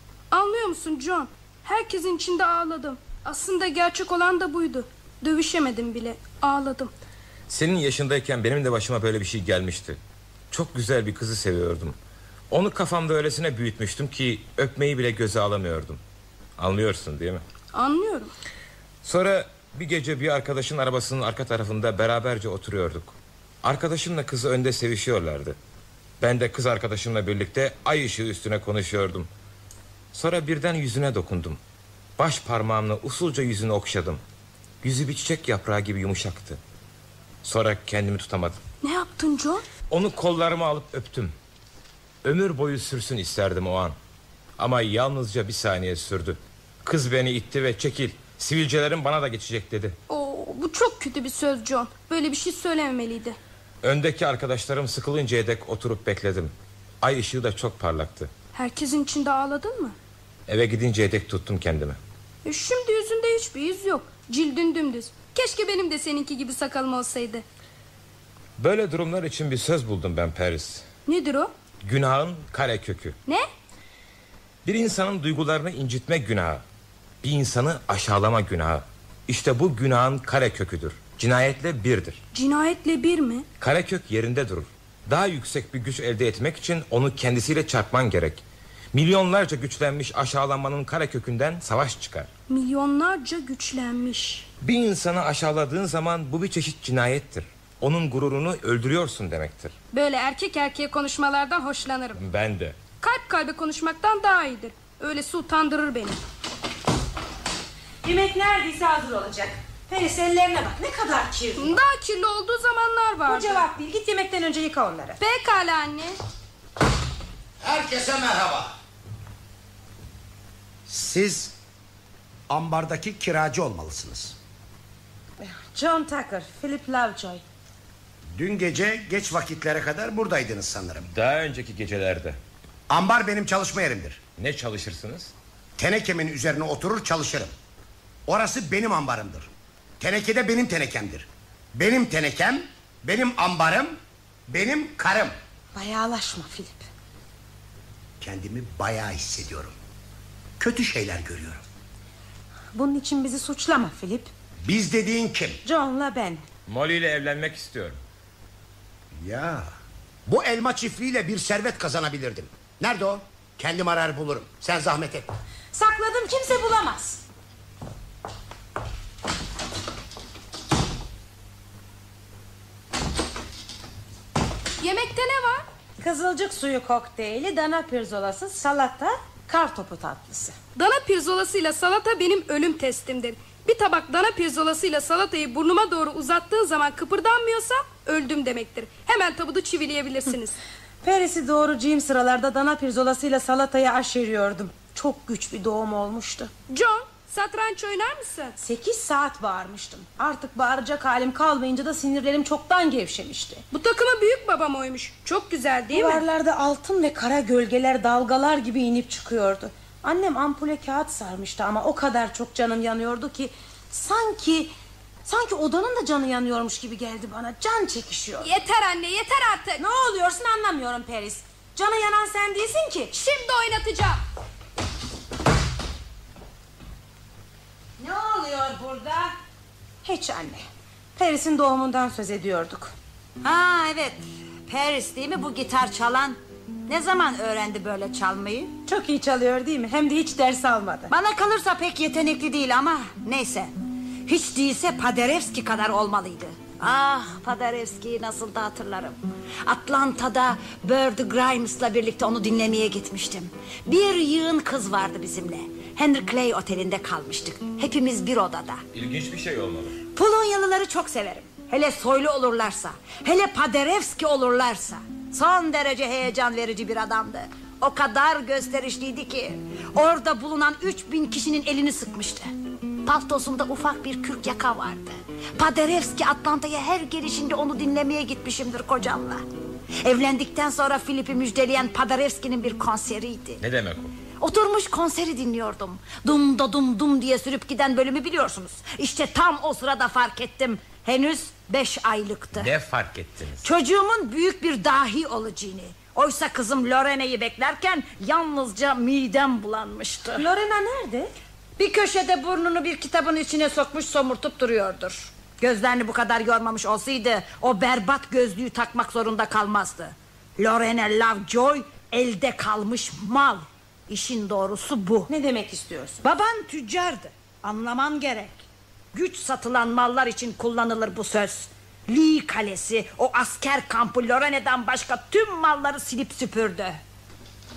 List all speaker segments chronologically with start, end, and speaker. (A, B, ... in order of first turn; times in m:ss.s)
0:00.3-0:06.9 A
0:07.5-0:10.0 B
0:10.5-0:12.0 B
0:12.5-0:16.0 B
0:16.6-0:17.4 B
0:17.7-0:18.3 A
0:19.0-0:25.6 B
0:26.2-0:29.3 B
0:30.1-0:31.6 B
0:32.2-0:34.2 B
0:34.8-0:36.6 B
0:37.4-0:38.6 B
0:38.8-0:39.6 A
0:39.9-0:41.3 B
0:42.2-0:44.0 B
0:44.6-0:50.0 B
0:50.1-0:53.4 A
0:53.8-0:58.3 B
0:58.5-1:00.0 A
1:00.5-1:02.0 B
1:02.4-1:07.4 A
1:08.6-1:10.8 B
1:11.1-1:11.5 A
1:11.8-1:13.2 B
1:14.6-1:16.6 B
1:17.2-1:22.2 B
1:22.3-1:23.5 A
1:23.6-1:32.3 B
1:32.5-1:34.5 A
1:34.6-1:39.7 B
1:39.9-1:42.2 A
1:42.2-1:42.8 B
1:43.0-1:46.2 A
1:48.0-1:51.7 C
1:51.6-1:53.7 A
1:53.3-1:55.2 C
1:55.2-1:56.2 A
1:57.6-1:58.8 D
2:00.9-2:01.5 D
2:02.5-2:04.4 D
2:05.4-2:07.4 C
2:08.4-2:11.1 D
2:11.1-2:12.4 B
2:12.9-2:14.2 D
2:14.4-2:15.3 B
2:15.8-2:17.5 D
2:18.3-2:25.4 D
2:25.8-2:26.8 C
2:28.2-2:29.7 D
2:30.6-2:31.6 D
2:32.7-2:34.3 C
2:34.6-2:35.6 D
2:35.6-2:36.4 C
2:36.7-2:38.0 B
2:39.2-2:39.7 D
2:40.3-2:45.3 D
2:45.7-2:47.2 C
2:54.8-2:55.7 A
2:56.0-3:00.6 C
3:00.8-3:10.6 A
3:11.0-3:16.5 C
3:16.7-3:18.6 A
3:18.6-3:23.6 C
3:23.7-3:26.2 A
3:25.9-3:34.7 C
3:35.2-3:38.5 C
3:38.4-3:39.8 A
3:39.8-3:43.1 C
3:43.1-3:44.2 A
3:48.0-3:49.3 C
3:50.0-3:50.6 C
3:51.2-3:52.9 C
3:53.4-3:58.7 E
3:58.9-4:01.1 C
4:01.1-4:03.7 E
4:04.3-4:18.8 E
4:18.9-4:20.0 B
4:20.1-4:32.5 E
4:33.0-4:39.4 E
4:40.0-4:43.6 E
4:43.6-4:44.1 B
4:44.4-4:52.7 E
4:52.5-4:53.7 B
4:53.6-5:00.5 E
5:00.3-5:01.3 C
5:01.8-5:15.3 E
5:15.3-5:16.2 C
5:16.2-5:18.6 E
5:19.1-5:27.0 E